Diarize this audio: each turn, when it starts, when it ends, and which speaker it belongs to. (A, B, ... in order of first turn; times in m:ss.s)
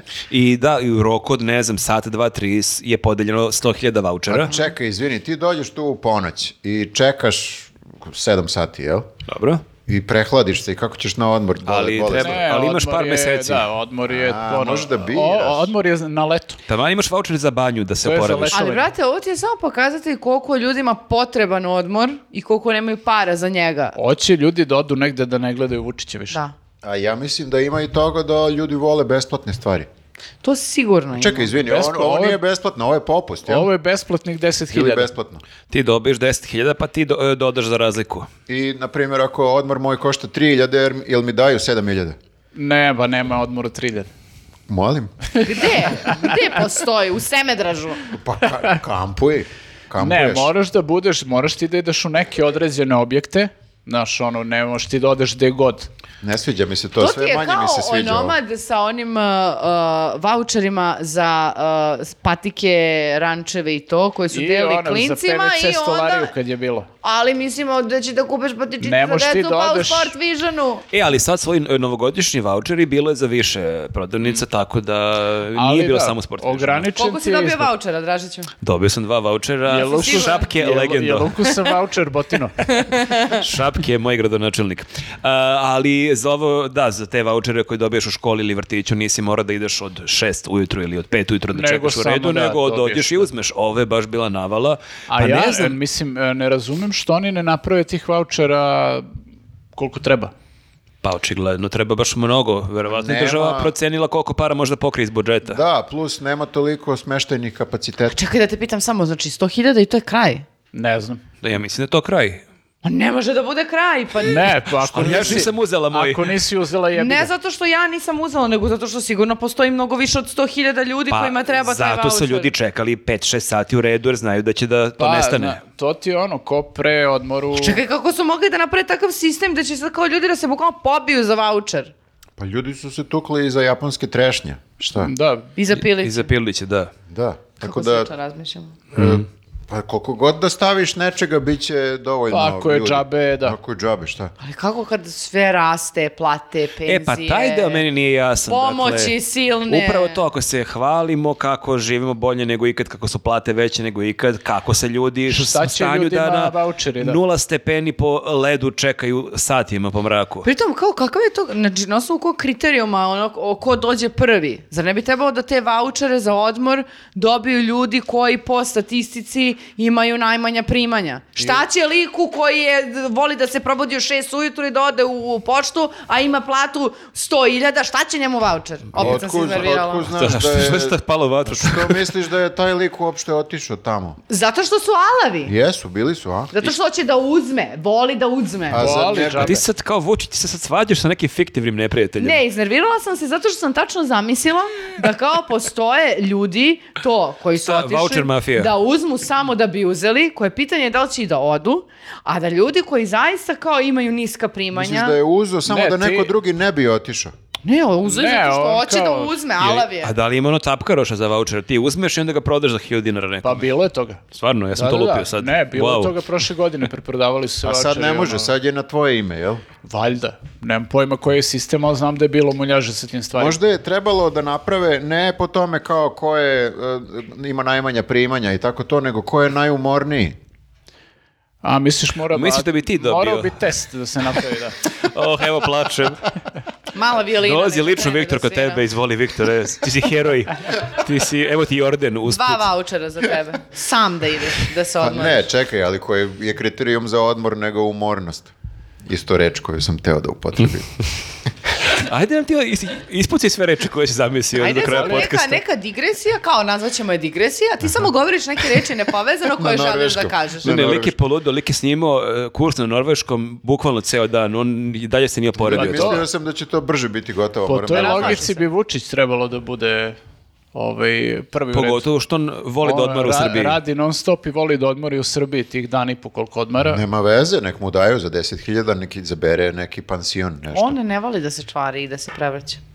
0:00.3-0:04.6 A
0:04.3-0:09.1 B
0:09.3-0:09.6 A
0:09.9-0:12.4 B
0:11.7-0:13.7 A
0:12.1-0:16.6 C
0:14.1-0:15.7 B
0:16.7-0:18.6 A
0:18.0-0:18.9 C
0:18.5-0:24.0 D
0:24.0-0:26.4 C
0:26.8-0:29.9 B
0:30.4-0:31.5 D
0:31.2-0:33.7 B
0:31.6-0:32.4 C
0:33.5-0:35.1 C
0:34.7-0:35.4 B
0:35.7-0:38.3 A
0:38.5-0:42.2 B
0:42.5-0:44.1 C
0:44.7-0:45.1 B
0:45.4-0:48.1 D
0:48.1-0:50.5 B
0:50.0-0:55.9 C
0:56.2-0:58.4 B
0:57.0-1:06.3 D
1:04.3-1:06.9 C
1:07.0-1:10.9 D
1:08.8-1:10.2 C
1:10.9-1:16.9 A
1:15.6-1:17.7 C
1:17.0-1:18.5 D
1:18.6-1:21.4 A
1:19.7-1:22.9 C
1:19.9-1:20.5 D
1:22.6-1:23.4 D
1:23.3-1:35.8 A
1:31.5-1:33.3 C
1:35.1-1:39.1 C
1:39.8-1:40.3 C
1:41.0-1:45.6 A
1:42.9-1:43.7 B
1:45.5-1:48.2 B
1:48.1-1:50.4 D
1:50.7-1:51.2 C
1:51.4-1:52.4 A
1:52.8-1:55.4 D
1:54.2-1:57.3 C
1:54.8-1:56.4 A
1:56.9-2:02.5 D
2:01.1-2:05.6 A
2:05.0-2:07.8 C
2:07.6-2:11.9 D
2:12.4-2:15.1 B
2:15.0-2:15.5 C
2:15.6-2:16.3 D
2:15.8-2:16.9 A
2:17.1-2:18.1 B
2:17.6-2:18.8 D
2:18.9-2:24.3 B
2:19.0-2:19.2 A
2:22.3-2:23.6 C
2:24.4-2:27.8 D
2:26.9-2:29.2 A
2:28.5-2:30.2 D
2:29.7-2:40.5 A
2:35.3-2:37.2 C
2:40.4-3:00.1 D
2:58.9-3:04.2 B
3:00.2-3:02.1 A
3:04.3-3:05.5 D
3:05.4-3:06.5 B
3:06.5-3:09.0 D
3:08.7-3:09.6 B
3:08.7-3:09.6 C
3:09.3-3:12.4 A
3:12.2-3:25.2 D
3:17.6-3:18.7 A
3:24.7-3:27.3 B
3:25.7-3:26.3 C
3:27.6-3:30.1 D
3:28.0-3:29.4 C
3:29.6-3:33.7 A
3:33.4-3:34.2 C
3:34.3-3:36.2 A
3:34.7-3:38.5 C
3:37.6-3:39.6 B
3:39.8-3:43.6 C
3:43.4-3:50.4 B
3:51.6-3:54.8 C
3:52.3-3:53.6 A
3:54.9-3:56.2 A
3:56.9-3:58.8 D
3:57.4-4:02.7 A
4:02.3-4:05.4 D
4:05.0-4:08.5 B
4:09.0-4:10.9 B
4:11.9-4:15.6 A
4:14.6-4:20.7 D
4:14.7-4:15.3 C
4:19.5-4:21.2 B
4:20.6-4:26.2 A
4:25.6-4:28.4 B
4:25.7-4:26.2 C
4:27.7-4:30.2 C
4:27.9-4:28.6 D
4:30.7-4:32.0 C
4:31.7-4:33.8 A
4:32.8-4:37.0 C
4:36.9-4:41.0 B
4:40.7-4:42.8 D